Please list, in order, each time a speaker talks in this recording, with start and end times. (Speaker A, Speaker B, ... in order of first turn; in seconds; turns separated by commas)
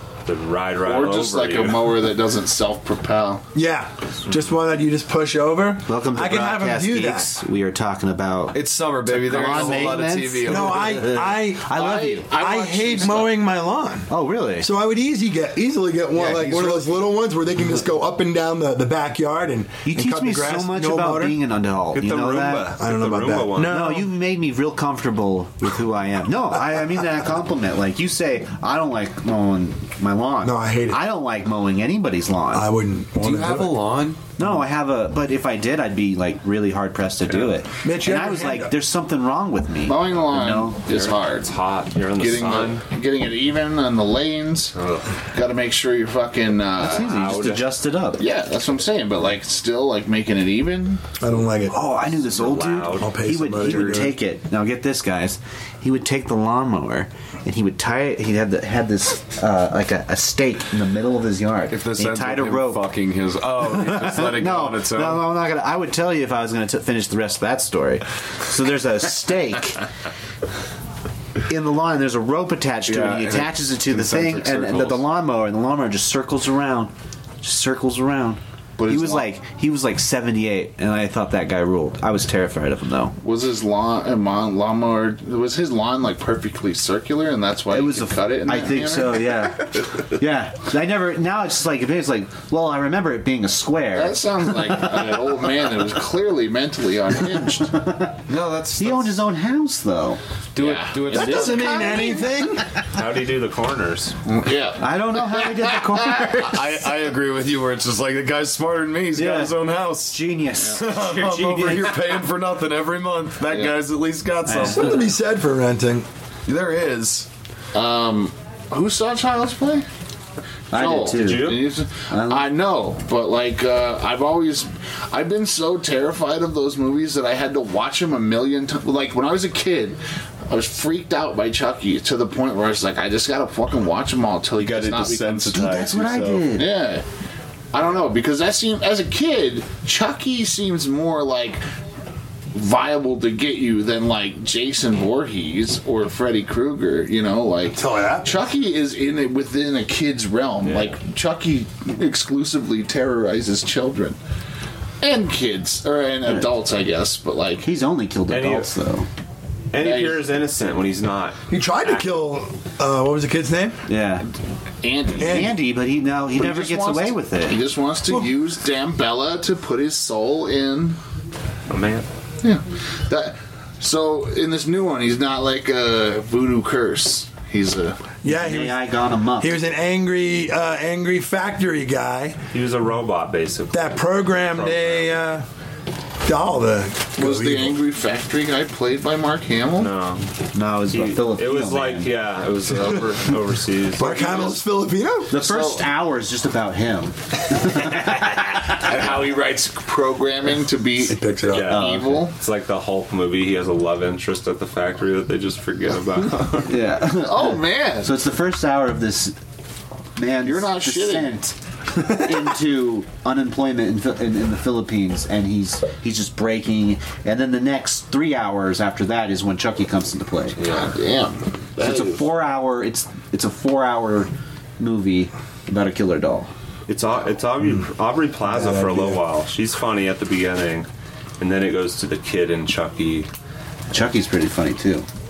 Speaker A: 0.3-2.0, Speaker B: 0.8-3.5, Speaker C: 3.5-7.3, Speaker D: 5.9-12.3, Speaker E: 8.5-11.1, Speaker C: 10.4-21.4, Speaker B: 11.7-13.4, Speaker D: 14.1-14.7, Speaker E: 16.1-17.0, Speaker D: 19.9-22.7, Speaker A: 21.9-23.8, Speaker C: 22.8-24.1, Speaker D: 23.6-32.7, Speaker C: 30.4-31.0, Speaker C: 32.5-33.9, Speaker E: 33.1-34.2, Speaker D: 34.4-40.8, Speaker C: 37.8-38.8, Speaker B: 39.8-41.6, Speaker A: 40.9-42.9, Speaker B: 42.1-44.8, Speaker A: 44.8-45.0, Speaker B: 45.3-47.1, Speaker D: 46.8-48.2, Speaker A: 46.9-47.7, Speaker B: 48.2-51.0, Speaker C: 51.2-51.8, Speaker D: 51.7-62.9, Speaker A: 52.2-53.1, Speaker C: 53.0-54.2, Speaker E: 61.7-65.3, Speaker D: 63.8-69.8, Speaker D: 71.5-83.2, Speaker E: 72.9-75.0, Speaker B: 78.8-79.3, Speaker B: 83.2-89.4, Speaker D: 87.7-94.2, Speaker B: 93.9-97.8, Speaker D: 97.7-98.2, Speaker E: 98.3-99.2, Speaker D: 98.8-100.2, Speaker E: 100.6-101.7, Speaker B: 100.6-102.3, Speaker D: 101.1-102.2, Speaker C: 101.1-102.7, Speaker A: 102.9-104.2, Speaker B: 104.2-106.3, Speaker D: 104.8-106.9, Speaker E: 106.5-115.0, Speaker D: 109.1-112.0, Speaker B: 113.5-113.8, Speaker D: 114.5-115.0, Speaker C: 114.7-116.1, Speaker E: 116.5-117.3, Speaker B: 117.7-119.9, Speaker D: 120.7-122.5, Speaker B: 120.7-135.7, Speaker A: 121.2-121.7, Speaker E: 134.6-136.6, Speaker D: 135.5-136.7, Speaker B: 136.5-137.1, Speaker B: 137.7-141.6, Speaker B: 142.5-154.2, Speaker C: 147.7-148.4, Speaker A: 150.6-151.0, Speaker B: 155.0-157.7, Speaker D: 157.6-159.1, Speaker A: 158.3-158.7, Speaker A: 159.7-162.1, Speaker B: 159.8-160.3, Speaker C: 161.5-163.8, Speaker D: 163.9-164.3, Speaker B: 164.8-165.6, Speaker C: 165.2-165.6, Speaker D: 165.2-167.6, Speaker B: 166.3-171.0, Speaker A: 171.7-172.1, Speaker B: 172.4-178.0, Speaker C: 178.2-182.4, Speaker D: 178.3-179.6, Speaker A: 182.5-185.2, Speaker C: 183.7-185.5, Speaker C: 186.2-187.8, Speaker B: 187.2-189.9, Speaker A: 189.8-190.2, Speaker D: 190.5-192.1, Speaker A: 190.9-194.6, Speaker C: 194.0-195.3, Speaker D: 195.3-199.0, Speaker B: 195.3-195.9, Speaker B: 198.8-202.4, Speaker C: 201.1-201.8, Speaker A: 201.5-206.8, Speaker D: 201.7-202.2, Speaker D: 206.7-209.4, Speaker B: 207.2-208.2, Speaker D: 210.2-220.6, Speaker B: 210.4-211.4, Speaker A: 220.6-220.9, Speaker B: 220.6-222.3, Speaker D: 221.8-226.5, Speaker A: 226.9-230.9, Speaker C: 228.5-229.2, Speaker A: 231.4-233.3, Speaker D: 233.9-235.1